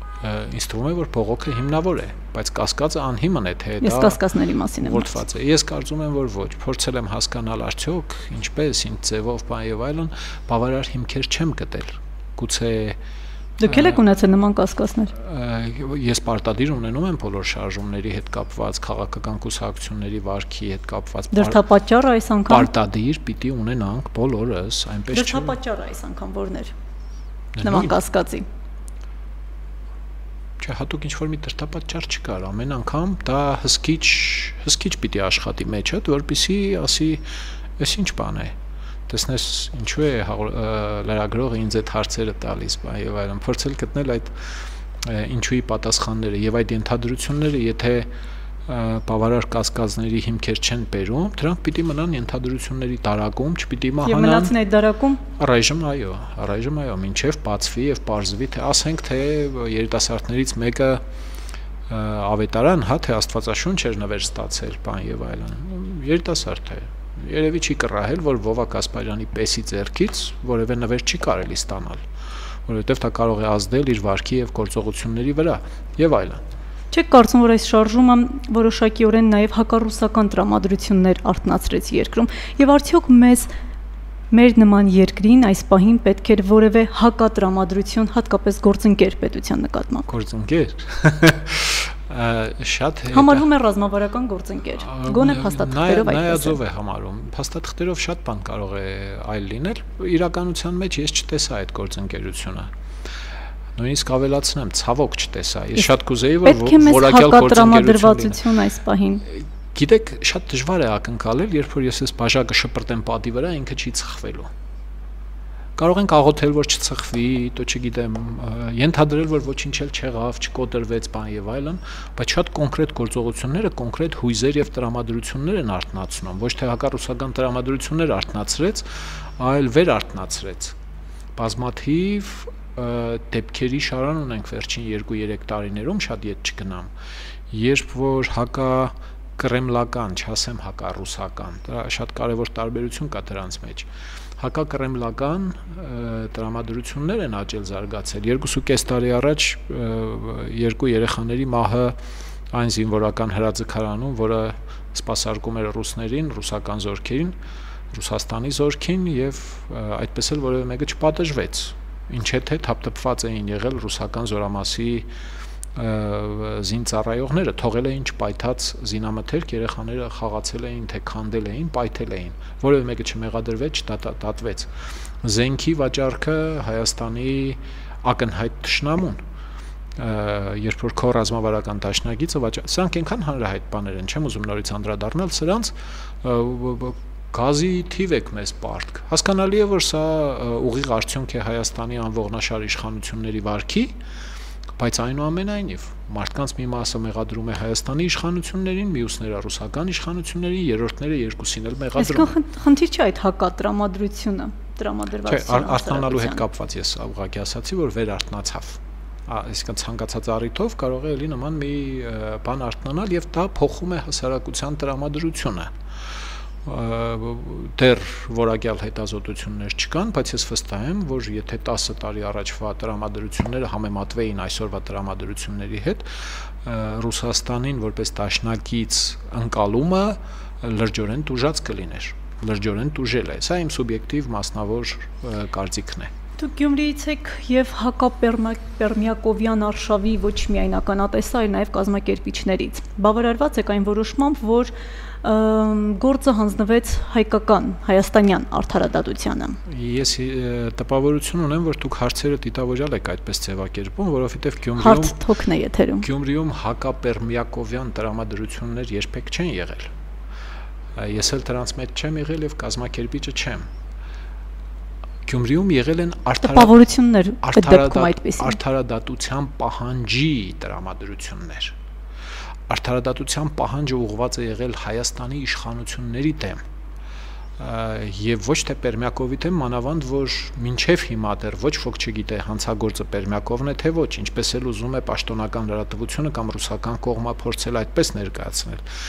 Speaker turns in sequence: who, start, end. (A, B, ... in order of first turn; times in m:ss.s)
0:00.2-0:04.2 A
0:03.8-0:05.1 B
0:04.8-0:13.0 A
0:13.6-0:15.1 B
0:13.7-0:14.0 A
0:15.1-0:21.6 A
0:21.3-0:22.7 B
0:22.5-0:25.6 A
0:25.1-0:26.7 B
0:27.6-0:28.0 A
0:27.6-0:28.5 B
0:30.6-0:37.2 A
0:37.8-0:38.6 A
0:39.1-0:44.3 A
0:45.0-0:48.1 A
0:48.7-0:54.6 A
0:54.0-0:55.2 B
0:55.4-1:01.0 A
1:01.9-1:12.0 A
1:12.6-1:16.4 A
1:16.9-1:23.5 B
1:24.3-1:30.1 B
1:30.1-1:33.5 A
1:33.1-1:36.6 B
1:34.8-1:42.7 A
1:43.8-1:48.4 A
1:46.4-1:49.2 B
1:49.3-1:54.5 A
1:55.8-2:10.8 A
2:11.4-2:16.9 A
2:17.5-2:32.0 A
2:32.5-2:37.4 A
2:37.9-2:45.1 A
2:45.8-2:59.2 A
3:00.0-3:14.0 A
3:14.8-3:22.3 A
3:22.0-3:26.4 B
3:25.3-3:35.7 A
3:36.6-3:56.1 A
3:56.4-4:09.6 B
4:09.7-4:15.2 A
4:14.8-4:16.1 B
4:16.0-4:19.9 A
4:21.0-4:23.7 A
4:25.2-4:26.8 A
4:26.4-4:28.6 B
4:27.4-4:31.8 A
4:32.7-4:36.6 A
4:37.6-4:48.8 A